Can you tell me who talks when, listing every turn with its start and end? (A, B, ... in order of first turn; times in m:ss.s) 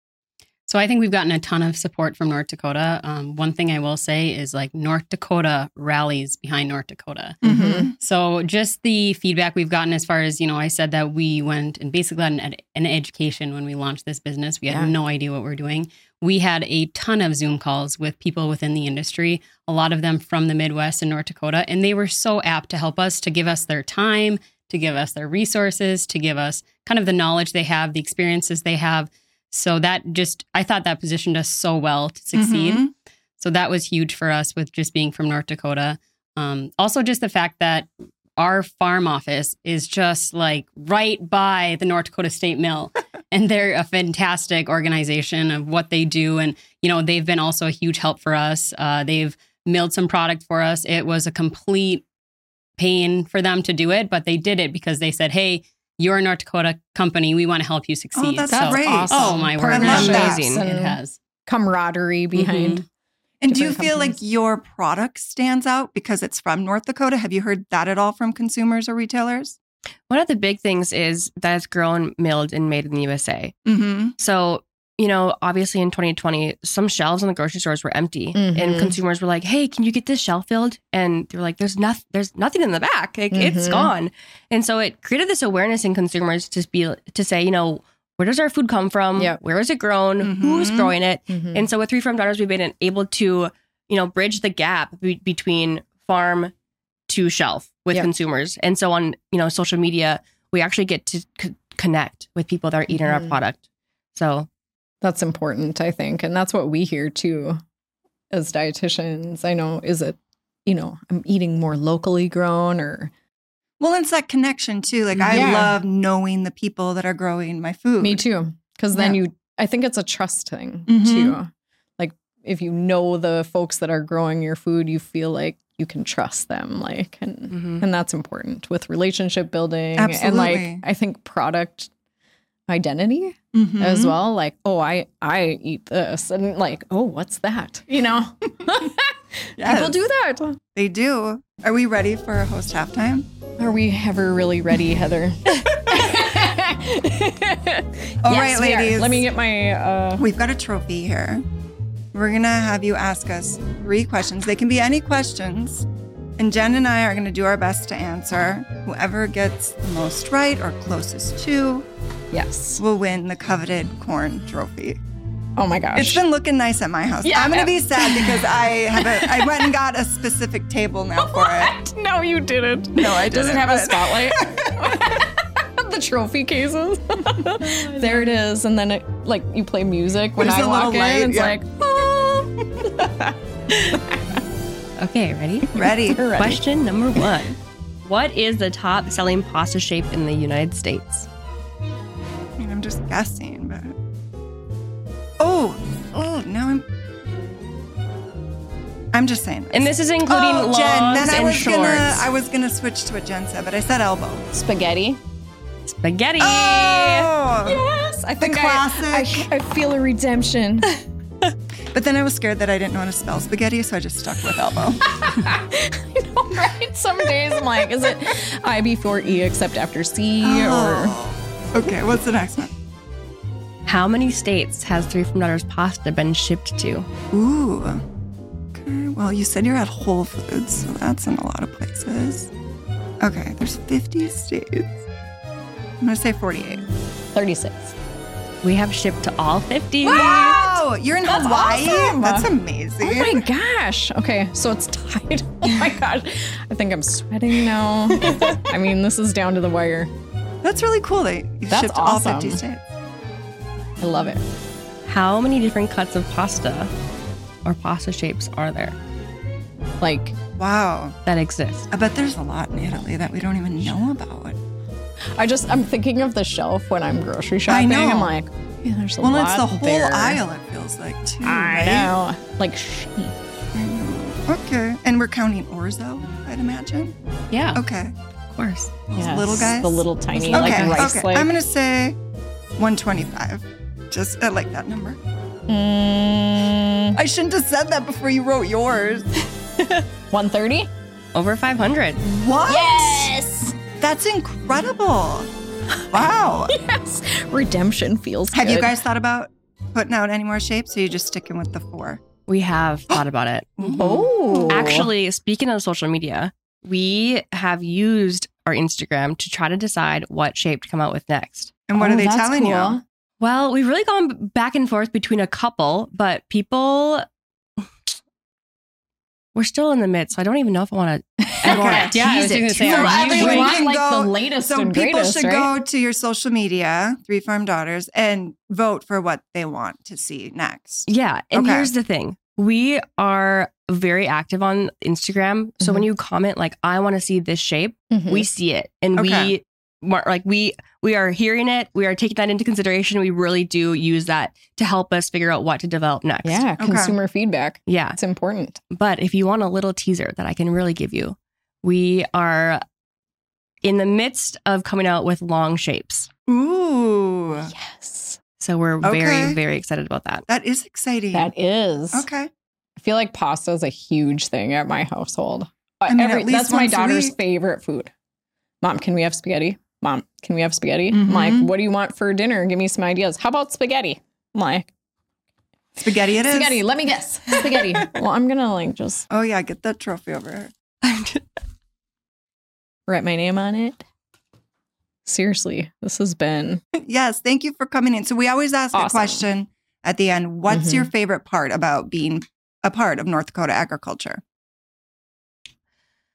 0:00.7-0:07.4 A
0:07.4-0:07.9 B
0:07.4-0:07.9 C
0:08.0-0:52.0 A
0:32.3-0:32.9 B
0:52.8-1:01.2 A
0:58.2-1:00.4 B
0:58.5-1:02.8 C
0:59.8-1:00.6 D
1:02.4-1:02.8 A
1:03.4-1:09.6 B
1:03.5-1:04.2 C
1:10.1-1:13.6 D
1:13.6-1:14.1 B
1:14.2-1:36.5 D
1:18.3-1:19.0 C
1:23.3-1:23.9 C
1:30.2-1:30.9 B
1:31.3-1:31.7 C
1:37.1-1:43.6 D
1:42.9-1:43.3 C
1:44.1-1:44.5 D
1:45.0-1:47.6 C
1:48.3-1:53.1 C
1:53.8-1:58.2 B
1:55.2-1:55.8 C
1:58.0-2:11.9 C
2:00.9-2:01.4 B
2:07.5-2:07.8 D
2:10.0-2:10.8 B
2:12.7-2:20.6 C
2:13.5-2:14.2 B
2:19.6-2:20.0 B
2:20.8-2:23.3 B
2:23.6-2:30.3 C
2:28.2-2:29.2 B
2:30.2-2:31.4 B
2:32.1-2:35.9 B
2:36.4-2:41.8 B
2:42.3-2:42.8 C
2:42.8-2:45.0 B
2:45.6-2:46.2 C
2:45.9-2:51.8 B
2:47.2-2:49.6 C
2:51.2-3:04.4 C
2:52.9-2:55.1 B
3:00.4-3:01.6 B
3:05.0-3:05.7 D
3:05.7-3:06.3 B
3:05.7-3:06.6 C
3:06.3-3:11.3 D
3:12.6-3:13.9 B
3:15.4-3:16.8 B
3:19.1-3:24.4 B
3:19.7-3:22.2 D
3:24.5-3:25.2 C
3:25.8-3:27.3 D
3:26.4-3:27.8 B
3:27.6-3:30.9 C
3:28.4-3:29.5 B
3:31.9-3:35.2 B
3:35.0-3:41.2 C
3:40.4-3:42.7 B
3:43.8-3:47.1 D
3:47.3-3:48.0 B
3:48.7-3:52.5 B
3:53.2-3:55.0 B
3:56.0-3:56.8 B
3:57.3-3:57.9 C
3:58.6-4:00.6 D
4:00.0-4:02.5 C
4:00.0-4:03.4 B
4:03.0-4:10.1 C
4:10.6-4:12.9 B
4:11.7-4:12.6 C
4:14.0-4:14.4 C
4:15.0-4:16.9 D
4:17.6-4:19.0 D
4:20.0-4:20.4 C
4:20.6-4:21.2 B
4:21.2-4:21.9 D
4:21.9-4:24.6 B
4:25.4-4:30.4 C
4:27.7-4:28.4 B
4:29.2-4:32.1 B
4:31.4-4:33.4 C
4:33.7-4:37.1 B
4:37.5-4:37.8 A
4:37.7-4:38.1 B
4:38.5-4:39.0 D
4:39.1-4:42.2 B
4:39.1-4:41.5 C
4:40.4-4:41.1 D
4:42.8-4:45.2 B
4:45.7-4:47.2 C
4:47.1-4:49.3 B
4:50.3-4:50.9 C
4:51.3-4:52.2 D
4:52.2-4:53.3 B
4:52.6-4:53.7 C
4:54.0-4:55.5 B
4:56.1-4:56.8 B
4:56.7-4:59.0 C
4:58.5-5:02.2 B
5:02.5-5:11.7 D
5:03.8-5:05.1 B
5:03.9-5:05.1 C
5:11.9-5:13.0 B
5:12.0-5:13.0 C
5:13.4-5:17.2 D
5:19.5-5:23.8 D
5:21.4-5:22.1 C
5:21.7-5:22.2 B
5:22.1-5:23.7 A
5:22.8-5:31.9 B
5:22.9-5:25.7 C
5:31.1-5:46.6 D
5:38.1-5:38.5 C
5:39.1-5:39.5 B
5:46.4-5:48.8 C
5:46.8-5:47.1 B
5:47.9-5:48.2 D
5:48.9-5:52.8 D
5:53.8-5:56.3 D
5:56.5-5:57.7 B
5:57.6-5:58.4 C
5:58.6-6:00.4 D
5:59.0-5:59.6 B
6:00.5-6:01.5 B
6:01.3-6:02.3 C
6:02.1-6:02.5 B
6:03.0-6:08.1 C
6:06.1-6:07.4 B
6:08.8-6:14.9 C
6:11.1-6:11.7 B
6:16.0-6:16.8 B
6:16.4-6:19.2 C
6:19.3-6:20.7 B
6:21.0-6:21.4 D
6:23.1-6:24.0 C
6:25.2-6:26.8 C
6:27.0-6:34.4 B
6:28.9-6:29.5 C
6:30.7-6:31.1 C